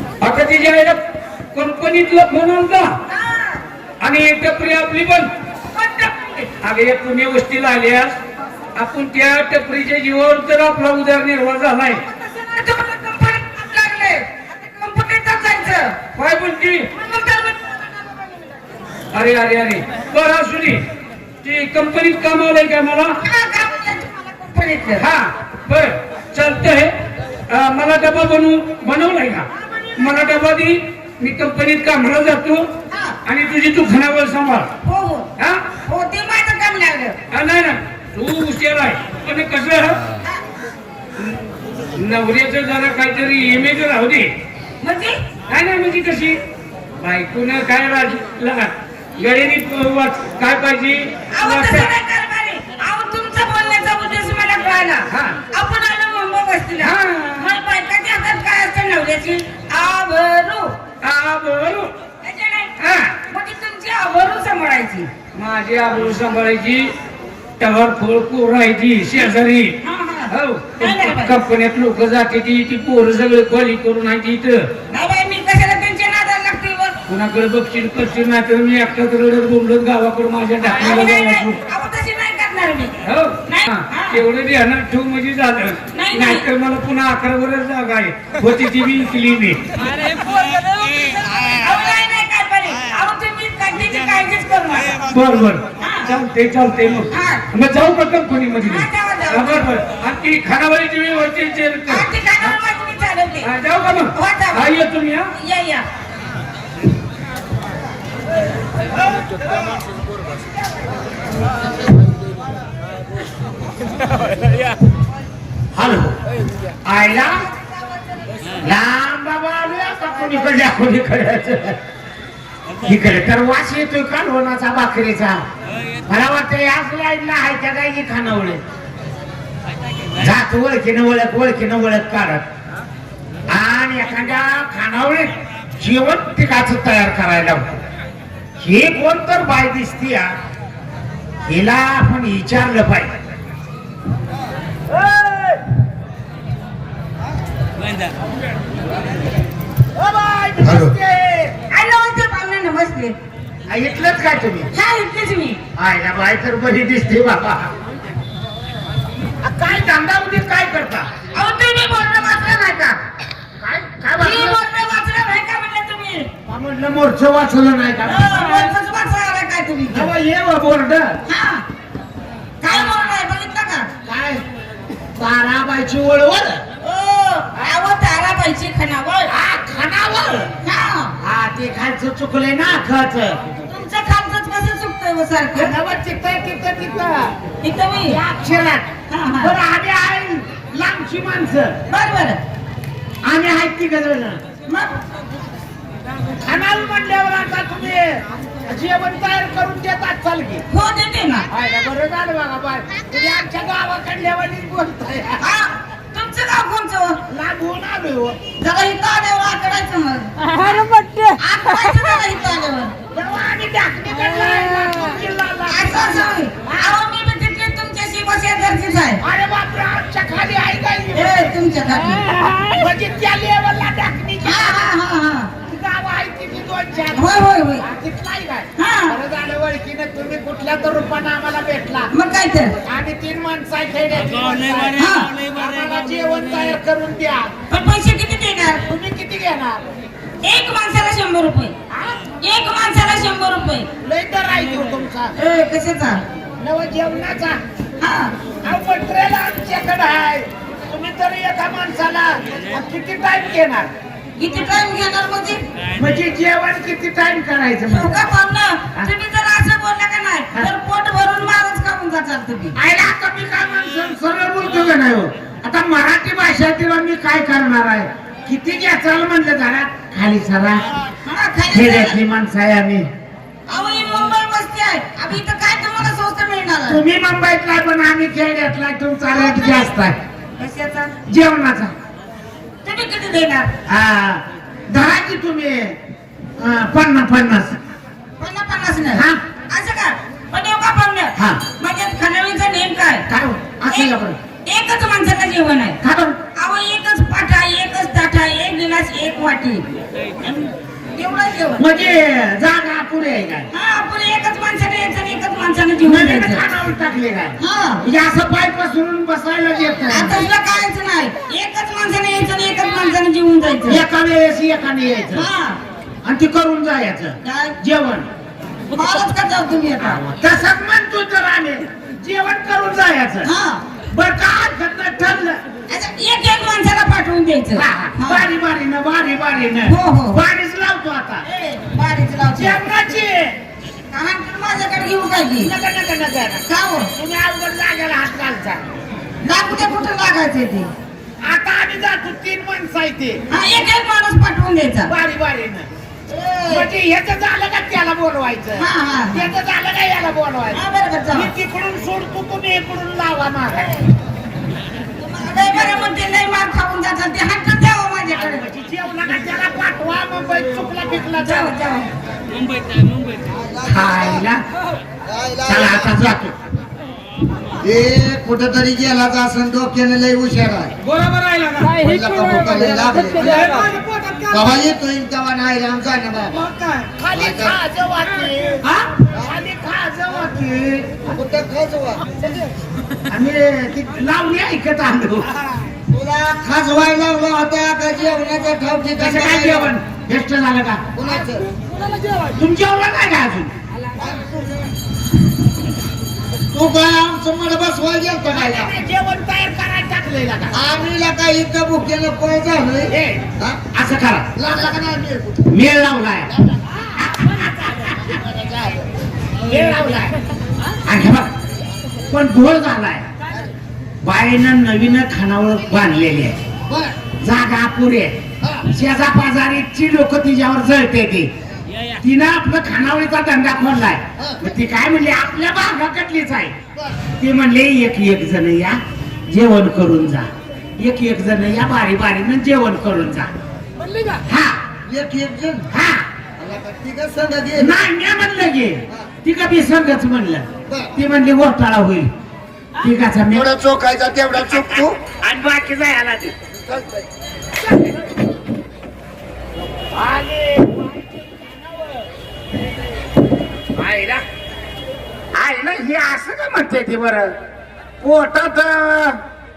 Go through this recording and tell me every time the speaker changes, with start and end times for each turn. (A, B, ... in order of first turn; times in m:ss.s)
0:00.2-0:01.0 A
0:01.5-0:03.0 A
0:03.1-0:03.6 B
0:04.0-0:05.3 A
0:05.7-0:06.5 B
0:06.6-0:08.2 A
0:08.7-0:12.0 A
0:12.0-0:16.0 B
0:16.1-0:16.9 A
0:16.9-0:18.4 B
0:19.1-0:20.8 A
0:21.4-0:23.2 A
0:23.2-0:25.1 B
0:25.0-0:26.9 A
0:27.5-0:32.7 A
0:32.9-0:33.2 B
0:33.2-0:34.7 A
0:34.8-0:37.2 B
0:35.4-0:35.6 A
0:37.3-0:40.1 A
0:41.9-0:44.3 A
0:44.8-0:45.2 B
0:45.5-0:46.4 A
0:47.0-0:51.9 A
0:51.3-1:00.8 B
0:55.1-0:55.4 A
0:56.8-0:57.5 A
1:01.0-1:01.9 A
1:02.2-1:05.1 B
1:02.8-1:03.1 A
1:05.3-1:06.9 A
1:07.6-1:09.8 A
1:09.8-1:11.4 B
1:10.3-1:14.7 A
1:14.9-1:17.0 B
1:17.1-1:21.6 A
1:20.6-1:24.2 B
1:23.0-1:29.6 A
1:25.9-1:26.4 B
1:30.0-1:35.0 B
1:35.1-1:42.1 A
1:35.8-1:36.1 B
1:37.1-1:37.4 B
1:38.6-1:39.7 B
1:41.9-1:43.5 B
1:43.4-1:45.3 A
1:44.1-1:44.7 B
1:45.3-1:45.9 B
1:55.7-1:56.2 C
1:56.8-1:57.4 C
1:57.0-1:58.6 B
1:58.6-2:01.8 C
2:02.8-2:05.4 C
2:06.0-2:08.6 C
2:10.2-2:12.4 C
2:13.5-2:17.8 C
2:18.6-2:20.3 C
2:21.5-2:23.1 C
2:30.0-2:31.5 C
2:31.7-2:33.2 B
2:33.7-2:34.7 C
2:34.7-2:35.6 B
2:35.8-2:37.6 C
2:39.4-2:41.1 C
2:41.3-2:43.0 B
2:43.6-2:44.6 C
2:44.2-2:46.3 B
2:46.5-2:48.7 C
2:48.0-2:50.1 B
2:49.9-2:51.2 C
2:51.2-2:51.6 B
2:52.6-2:53.9 B
2:52.7-2:53.1 C
2:54.0-2:54.4 C
2:55.2-2:56.6 C
2:56.8-2:59.3 B
2:59.3-3:00.5 C
3:00.6-3:01.2 B
3:01.2-3:03.4 C
3:03.7-3:05.7 B
3:05.6-3:07.3 C
3:07.6-3:08.2 B
3:08.1-3:08.9 C
3:09.1-3:09.6 B
3:09.4-3:11.8 C
3:11.9-3:12.4 B
3:13.2-3:14.4 C
3:14.7-3:15.0 B
3:16.4-3:20.6 C
3:20.7-3:21.5 B
3:21.5-3:25.4 C
3:25.4-3:27.2 B
3:27.3-3:28.4 C
3:28.6-3:32.9 B
3:33.1-3:37.0 C
3:35.7-3:39.2 B
3:39.2-3:41.5 C
3:41.1-3:42.3 B
3:42.7-3:44.8 C
3:44.4-3:45.5 B
3:45.6-3:52.1 C
3:47.1-3:47.9 B
3:48.8-3:49.2 B
3:52.1-3:52.7 B
3:52.8-3:57.5 C
3:54.9-3:55.3 B
3:57.7-3:58.8 B
3:58.9-3:59.8 C
4:00.4-4:01.7 B
4:02.4-4:03.9 B
4:04.0-4:05.3 C
4:05.3-4:06.2 B
4:06.6-4:07.6 C
4:08.0-4:08.3 B
4:08.6-4:13.9 C
4:14.4-4:15.6 B
4:16.0-4:18.2 C
4:17.9-4:22.8 B
4:22.8-4:30.8 C
4:31.2-4:32.2 B
4:31.7-4:33.1 C
4:33.7-4:37.0 B
4:36.9-4:40.2 C
4:39.3-4:39.9 B
4:40.6-4:41.1 B
4:41.3-4:41.9 C
4:42.8-4:43.7 B
4:43.9-4:45.9 C
4:46.6-4:47.7 C
4:48.4-4:53.2 B
4:49.1-4:49.4 C
4:51.4-4:51.6 C
4:53.3-4:54.4 C
4:53.9-4:54.1 B
4:54.6-4:56.0 B
4:56.0-4:56.4 C
4:56.5-4:59.8 B
5:00.4-5:02.1 B
5:01.8-5:03.7 C
5:03.7-5:06.7 B
5:06.0-5:10.4 C
5:07.6-5:08.0 B
5:10.1-5:14.0 B
5:13.9-5:15.5 C
5:15.3-5:15.8 B
5:16.2-5:18.3 C
5:17.4-5:17.8 B
5:18.9-5:20.2 B
5:20.0-5:23.5 C
5:23.4-5:23.8 B
5:24.1-5:25.6 C
5:25.9-5:28.4 B
5:27.7-5:31.4 C
5:29.8-5:30.4 B
5:31.4-5:32.8 B
5:32.5-5:33.5 C
5:34.1-5:35.7 B
5:35.6-5:36.6 C
5:36.7-5:37.1 B
5:37.2-5:38.9 C
5:39.4-5:40.9 B
5:41.4-5:43.4 C
5:43.5-5:45.1 B
5:45.1-5:45.9 C
5:46.3-5:46.9 B
5:46.7-5:50.8 C
5:48.8-5:49.5 B
5:50.7-5:51.5 B
5:51.3-5:54.0 C
5:55.2-5:58.6 B
5:58.3-6:01.7 C
6:01.4-6:02.1 B
6:02.8-6:03.2 A
6:03.5-6:04.3 D
6:03.8-6:04.6 C
6:05.2-6:06.1 D
6:05.6-6:06.5 C
6:07.8-6:10.9 D
6:11.0-6:12.0 A
6:12.0-6:13.6 D
6:13.3-6:14.8 A
6:14.5-6:16.6 D
6:16.6-6:17.1 A
6:17.2-6:18.8 C
6:17.3-6:17.7 D
6:19.4-6:21.2 C
6:21.2-6:22.3 D
6:23.3-6:25.5 C
6:26.1-6:29.9 D
6:29.2-6:31.1 C
6:31.2-6:31.6 D
6:32.5-6:33.7 C
6:34.1-6:34.9 D
6:36.7-6:38.9 D
6:38.5-6:40.8 C
6:40.7-6:43.8 D
6:43.1-6:44.9 C
6:44.6-6:45.6 D
6:45.6-6:46.5 C
6:47.1-6:48.4 C
6:49.6-6:50.4 C
6:51.0-6:51.5 C
6:52.3-6:53.2 C
6:54.2-6:56.6 C
6:56.9-6:57.2 D
6:57.3-6:58.4 C
6:58.9-7:01.5 C
7:02.2-7:06.8 C
7:07.4-7:09.0 C
7:09.5-7:10.5 C
7:11.0-7:13.5 C
7:14.4-7:14.9 C
7:15.0-7:15.9 D
7:15.9-7:16.2 C
7:16.6-7:18.0 D
7:17.8-7:22.3 C
7:20.8-7:21.1 D
7:23.0-7:23.7 C
7:23.6-7:25.2 D
7:24.5-7:26.5 C
7:30.1-7:31.0 C
7:34.0-7:34.4 C
7:35.5-7:37.5 C
7:38.2-7:39.3 C